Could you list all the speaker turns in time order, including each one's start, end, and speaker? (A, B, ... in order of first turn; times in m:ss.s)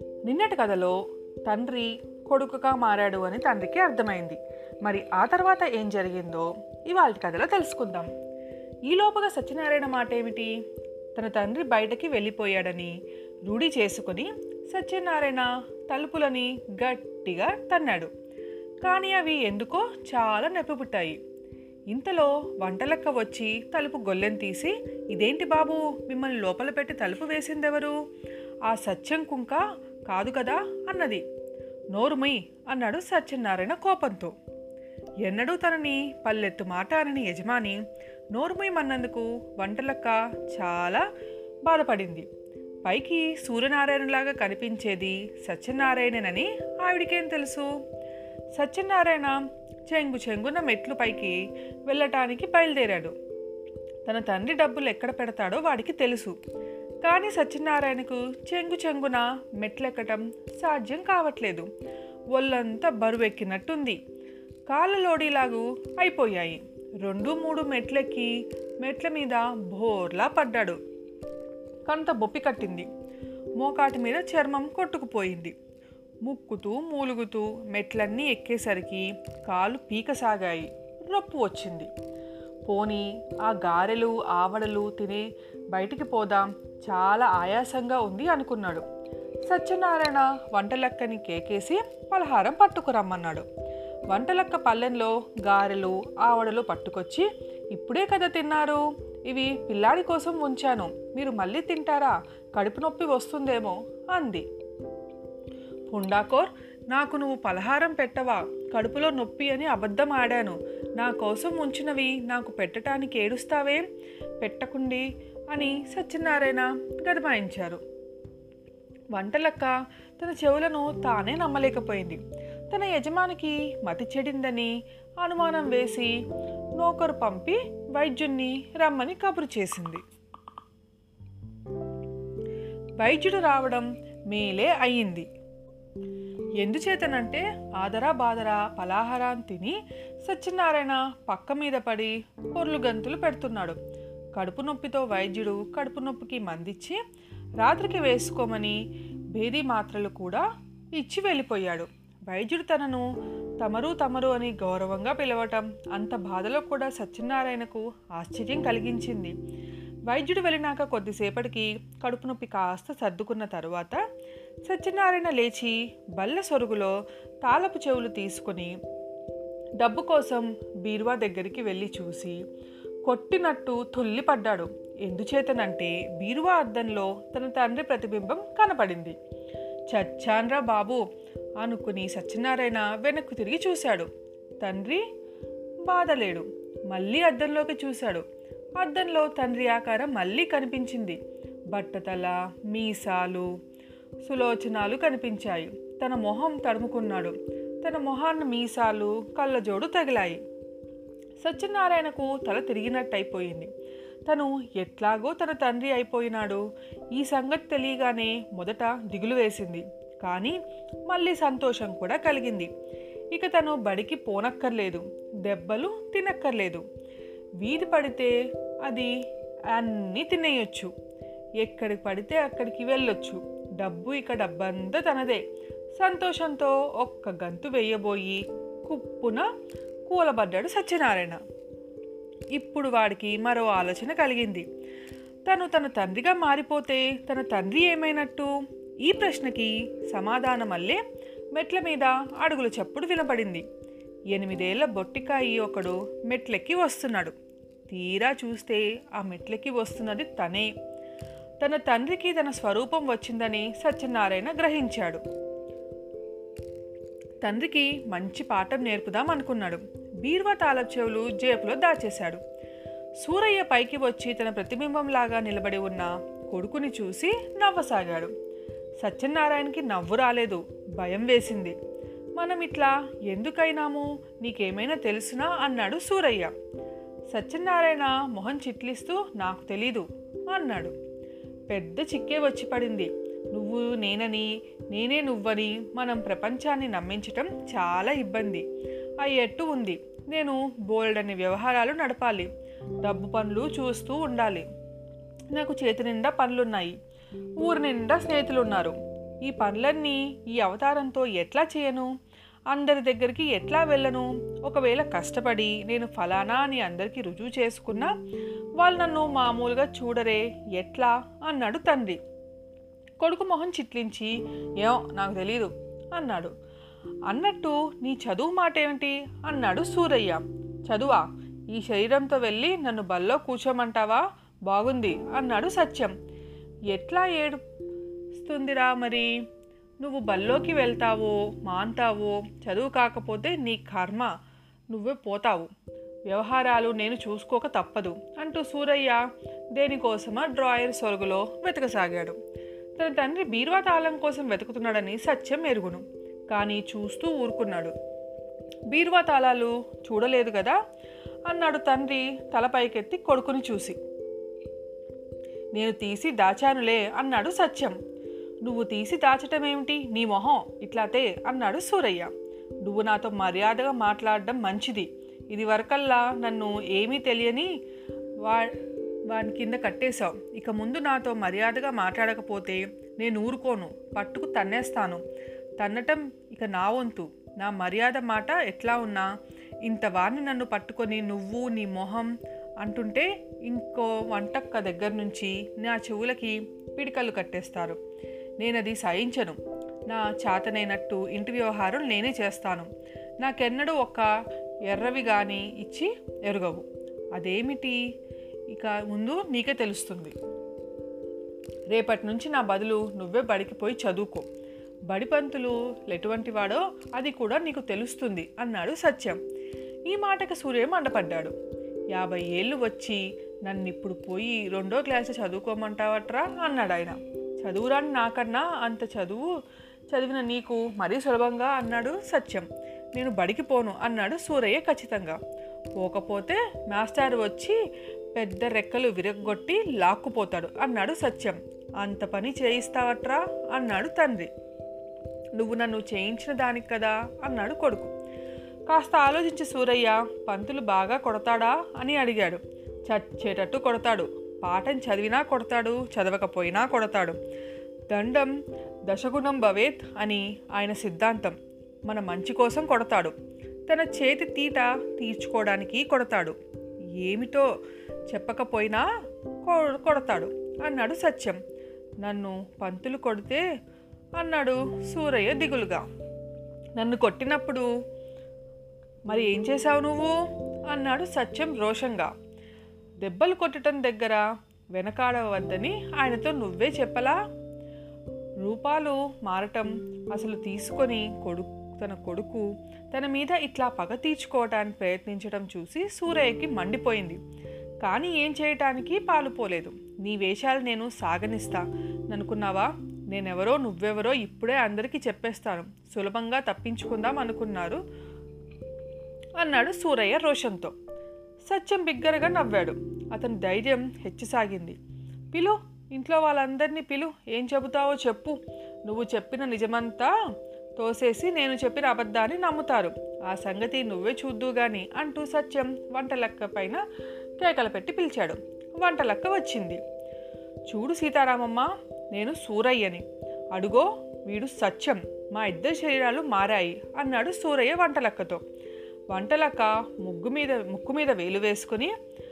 0:00.2-0:08.1 A
0:08.9-0:10.5 A
0:11.2-0:18.1 A
0:18.8-0:21.2 A
0:21.9-0:28.0 A
0:28.7-0:31.2 A
0:31.9-0:34.3 A
0:35.2-0:37.8 A
0:38.3-0:41.0 A
0:41.6-0:42.3 A
0:42.8-0:47.7 A
0:48.5-0:53.2 A
0:54.0-0:56.4 A
0:57.0-1:01.7 A
1:02.3-1:04.0 A
1:04.7-1:08.3 A
1:08.8-1:10.8 A
1:11.9-1:12.9 A
1:13.6-1:15.5 A
1:16.2-1:21.9 A
1:22.7-1:28.8 A
1:29.5-1:33.5 A
1:34.1-1:44.5 A
1:45.9-1:53.8 A
1:54.4-1:57.8 A
1:59.1-2:06.1 A
2:06.8-2:10.0 A
2:13.0-2:15.3 A
2:16.6-2:23.8 A
2:24.4-2:27.0 A
2:27.6-2:28.8 A
2:29.3-2:33.1 A
2:33.6-2:39.4 A
2:40.1-2:44.0 A
2:44.6-2:48.7 A
2:49.8-2:52.4 A
2:53.0-2:59.2 A
2:59.9-3:01.0 A
3:01.6-3:04.1 A
3:04.6-3:05.0 A
3:05.8-3:08.2 A
3:08.8-3:11.2 A
3:11.7-3:13.5 A
3:14.2-3:20.4 A
3:21.4-3:23.7 A
3:24.3-3:32.7 A
3:33.3-3:36.8 A
3:37.6-3:39.1 A
3:39.7-3:40.9 A
3:41.6-3:45.4 A
3:46.0-3:49.5 A
3:50.1-3:51.4 A
3:52.6-3:54.7 A
3:55.5-4:01.0 A
4:01.6-4:03.6 A
4:04.3-4:07.3 A
4:07.9-4:10.7 A
4:11.6-4:15.2 A
4:17.4-4:22.4 A
4:23.2-4:28.3 A
4:29.0-4:31.8 A
4:32.4-4:36.5 A
4:37.3-4:40.9 A
4:41.7-4:48.6 A
4:49.2-4:52.5 A
4:53.0-4:54.7 A
4:55.5-4:57.0 A
4:57.6-5:02.1 A
5:02.7-5:08.1 A
5:08.8-5:12.2 A
5:13.2-5:16.5 A
5:17.3-5:26.1 A
5:26.9-5:27.6 A
5:28.4-5:29.3 A
5:30.0-5:34.3 A
5:34.9-5:35.7 A
5:36.3-5:39.2 A
5:39.7-5:42.4 A
5:43.0-5:48.0 A
5:48.9-5:50.8 A
5:51.5-5:54.0 A
5:55.8-5:58.0 A
5:58.6-6:02.3 A
6:02.8-6:07.7 A
6:08.4-6:08.8 A
6:09.3-6:15.2 A
6:15.8-6:19.3 A
6:19.9-6:22.3 A
6:22.8-6:28.0 A
6:28.6-6:29.6 A
6:30.1-6:32.9 A
6:33.4-6:34.3 A
6:34.9-6:38.0 A
6:38.7-6:40.3 A
6:41.9-6:44.5 A
6:45.1-6:49.4 A
6:50.1-6:51.5 A
6:52.1-6:59.5 A
7:00.1-7:05.4 A
7:06.0-7:07.8 A
7:08.4-7:14.5 A
7:15.6-7:18.1 A
7:18.9-7:27.4 A
7:28.1-7:28.5 A
7:29.1-7:33.3 A
7:33.9-7:36.6 A
7:37.2-7:37.7 A
7:38.3-7:39.0 A
7:39.6-7:41.6 A
7:42.2-7:43.6 A
7:44.4-7:46.0 A
7:47.0-7:47.9 A
7:49.3-7:50.4 A
7:50.9-7:52.3 A
7:53.2-7:57.4 A
7:58.6-8:07.4 A
8:08.0-8:18.0 A
8:19.6-8:20.9 A
8:21.6-8:25.0 A
8:25.5-8:30.3 A
8:31.0-8:37.0 A
8:37.6-8:40.0 A
8:40.9-8:48.6 A
8:49.3-8:52.1 A